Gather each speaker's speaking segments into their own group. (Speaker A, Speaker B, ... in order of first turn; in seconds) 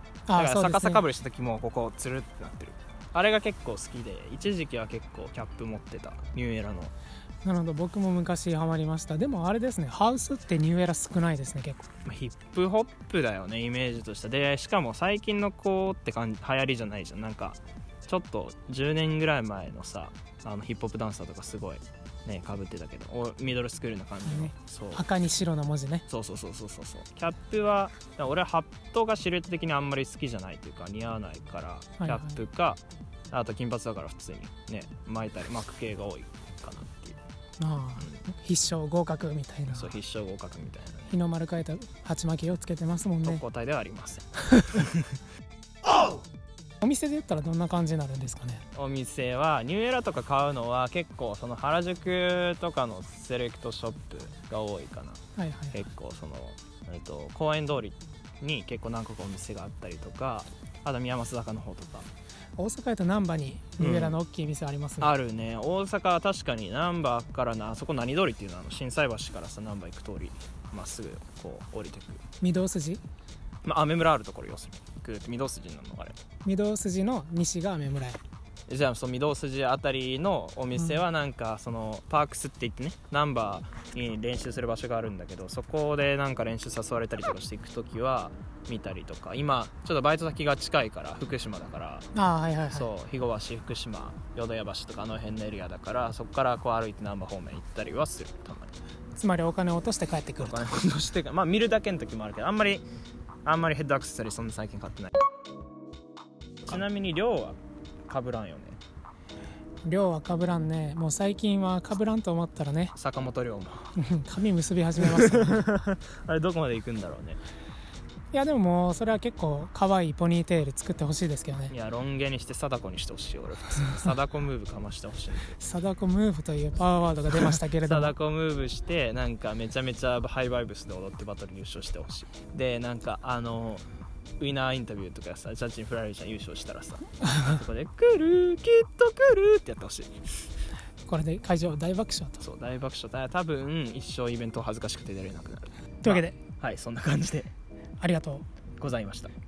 Speaker A: 0.3-1.0, 7.4-11.9, 24.3-26.1, 32.0-32.4, 37.6-40.0, 41.1-43.4, 46.8-48.6, 55.4-55.9, 62.6-65.1, 72.4-73.0, 76.5-78.2, 92.2-92.9, 99.2-100.7, 109.8-112.9, 114.0-115.7, 118.3-121.7, 125.6-128.2, 141.1-142.4, 146.0-146.4, 148.0-148.5
Speaker B: 0.3-6.9, 12.1-25.1, 26.1-32.8, 33.3-37.2, 39.7-41.1, 43.2-45.2, 48.7-55.2, 55.7-62.1, 63.8-64.2, 65.0-72.2, 73.6-76.2, 78.7-92.1, 92.7-98.7, 100.4-102.8, 103.5-105.1, 106.7-108.8, 113.0-113.9, 115.0-117.4, 121.7-125.6, 127.3-133.8, 134.4-140.2, 142.4-147.5, 148.8-149.3